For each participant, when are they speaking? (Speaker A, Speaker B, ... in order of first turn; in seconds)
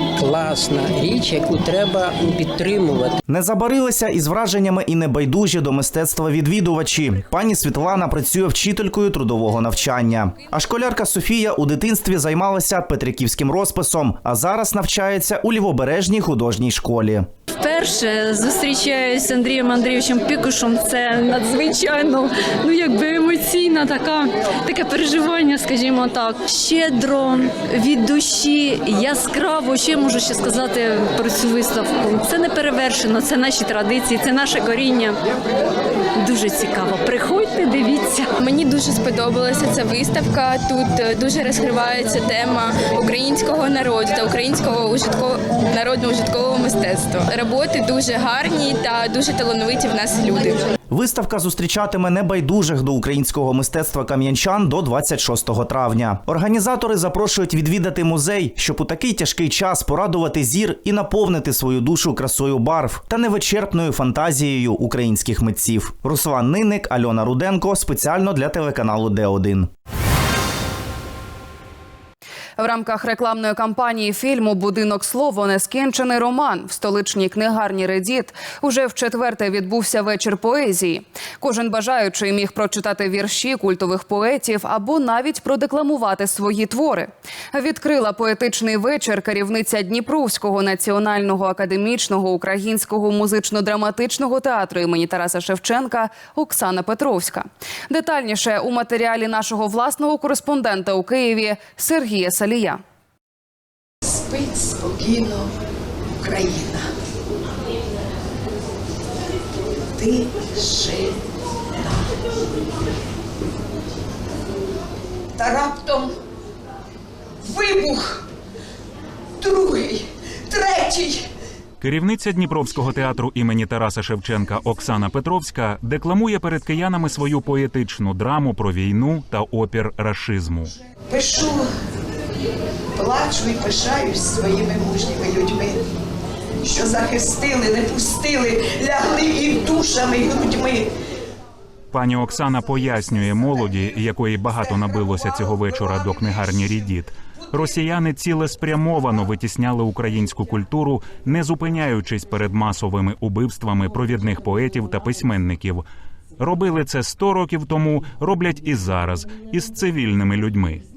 Speaker A: 0.2-3.2
Speaker B: 3.3-17.3, 50.9-69.7
Speaker C: 17.6-35.2, 36.2-38.3
Speaker D: 38.4-50.6
Speaker E: 72.6-102.8
Speaker F: 104.0-105.5, 106.2-106.9, 109.9-111.2, 115.4-116.1, 117.4-118.2, 119.4-121.3, 131.1-131.7, 133.0-135.8, 136.6-140.9
Speaker G: 121.8-130.7, 141.9-155.8, 156.4-160.8